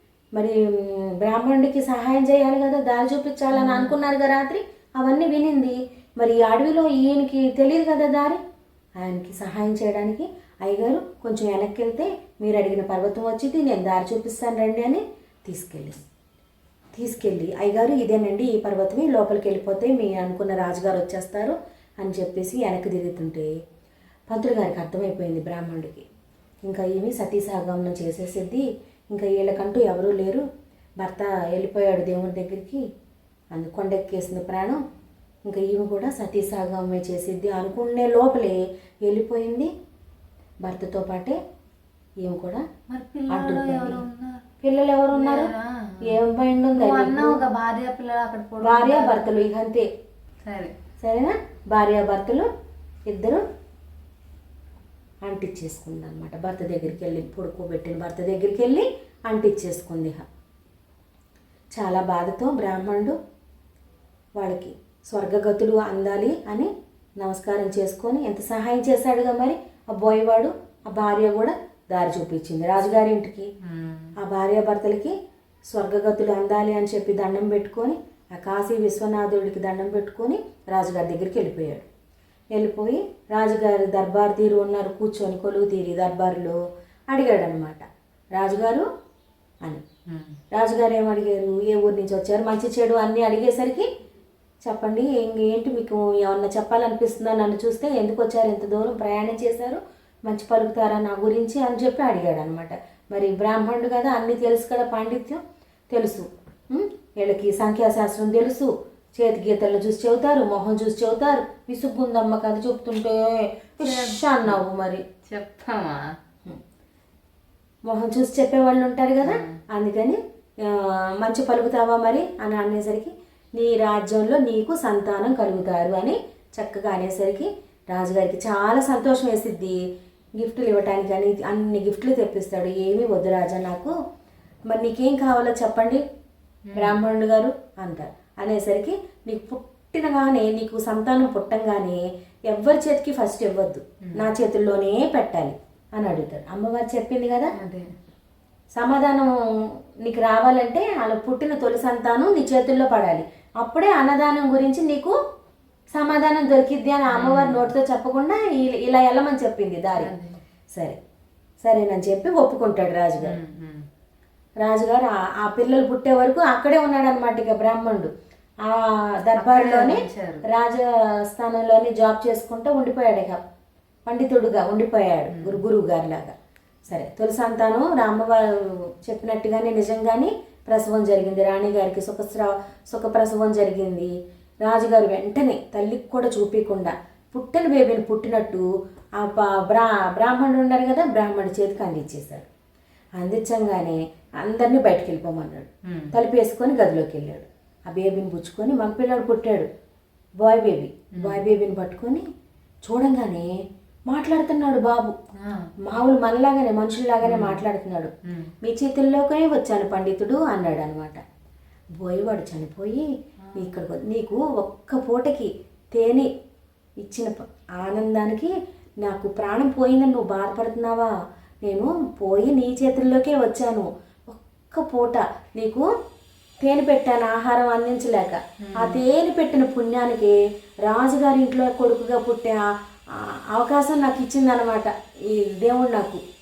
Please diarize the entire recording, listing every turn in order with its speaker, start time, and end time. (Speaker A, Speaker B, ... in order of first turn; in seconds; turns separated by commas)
Speaker A: 0.3-8.4, Speaker B: 3.5-3.9, Speaker A: 9.0-16.0, Speaker A: 16.9-23.5, Speaker A: 24.3-26.1, Speaker A: 26.7-30.4, Speaker A: 31.0-32.8, Speaker A: 33.5-34.8, Speaker A: 35.5-39.7, Speaker A: 40.6-41.4, Speaker A: 42.2-42.6, Speaker B: 42.9-44.4, Speaker A: 43.3-44.0, Speaker A: 44.6-45.5, Speaker B: 45.1-46.1, Speaker A: 46.0-47.4, Speaker B: 46.7-49.3, Speaker A: 48.6-49.9, Speaker B: 50.4-50.7, Speaker A: 51.0-52.5, Speaker A: 53.1-53.4, Speaker A: 55.3-60.2, Speaker A: 61.8-63.2, Speaker A: 64.4-73.5, Speaker B: 73.6-74.2, Speaker A: 74.2-75.1, Speaker A: 75.7-81.8, Speaker A: 82.5-86.6, Speaker A: 87.1-87.8, Speaker A: 88.4-88.8, Speaker B: 90.1-90.4, Speaker A: 90.5-93.9, Speaker A: 94.7-105.4, Speaker A: 105.9-115.0, Speaker B: 113.8-114.6, Speaker B: 115.3-116.2, Speaker A: 117.8-129.8, Speaker B: 119.2-119.6, Speaker A: 130.4-133.9, Speaker A: 134.7-136.0, Speaker B: 136.7-137.0, Speaker A: 136.8-147.5, Speaker B: 147.6-147.9, Speaker A: 148.7-149.3, Speaker A: 150.0-155.1, Speaker A: 155.9-160.1, Speaker B: 157.1-157.7, Speaker B: 160.0-160.4, Speaker A: 161.6-163.3, Speaker B: 163.2-163.8, Speaker A: 164.6-168.1, Speaker A: 168.6-173.4, Speaker B: 169.3-170.4, Speaker A: 174.1-176.3, Speaker B: 175.3-175.6, Speaker A: 176.9-184.1, Speaker A: 184.7-188.7, Speaker A: 189.2-192.5, Speaker A: 193.2-199.7, Speaker B: 195.8-196.1, Speaker A: 200.4-202.2, Speaker B: 201.2-201.4, Speaker A: 202.8-203.5, Speaker A: 204.1-205.2, Speaker B: 205.4-205.7, Speaker A: 205.8-211.2, Speaker B: 207.2-207.6, Speaker A: 212.0-213.1, Speaker A: 213.6-216.3, Speaker A: 217.0-221.1, Speaker A: 221.6-225.8, Speaker A: 226.6-230.3, Speaker B: 228.6-229.0, Speaker A: 230.9-232.6, Speaker A: 233.5-236.2